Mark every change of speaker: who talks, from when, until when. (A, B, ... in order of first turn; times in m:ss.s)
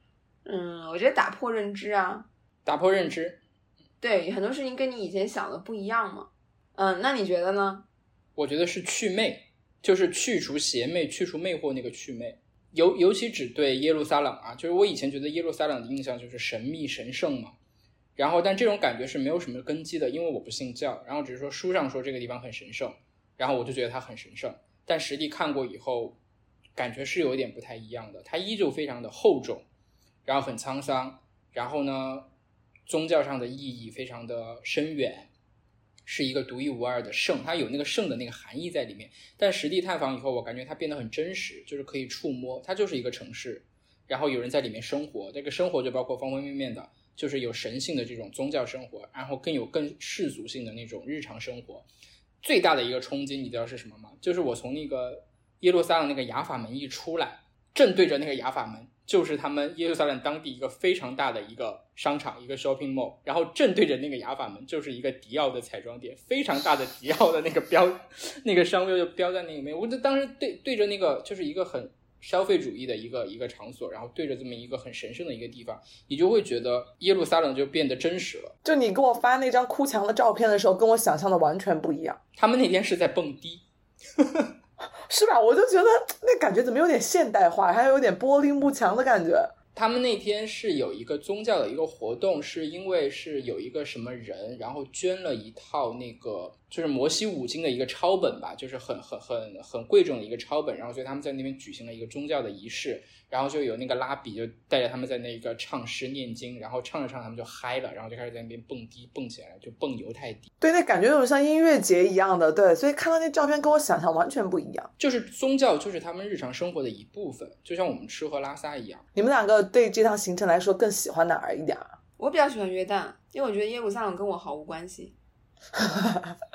0:00.4-0:02.3 A
0:02.6-0:03.4 B
0:04.0-0:07.8 A
0:08.4-0:17.6 B
0:18.2-0:26.2 B
0:26.8-0:29.6 B
0:30.2-0:32.3 B
0:32.9-0:35.3 B
0:36.0-0:51.9 B
0:52.4-1:18.5 B
1:18.6-1:22.2 C
1:22.4-1:23.6 B
1:24.2-1:24.5 B
1:25.1-1:29.5 C
1:29.7-1:50.5 B
1:50.6-1:54.9 C
1:55.0-1:59.0 B
1:59.1-2:01.9 C
2:02.2-2:05.1 A
2:05.8-2:06.3 C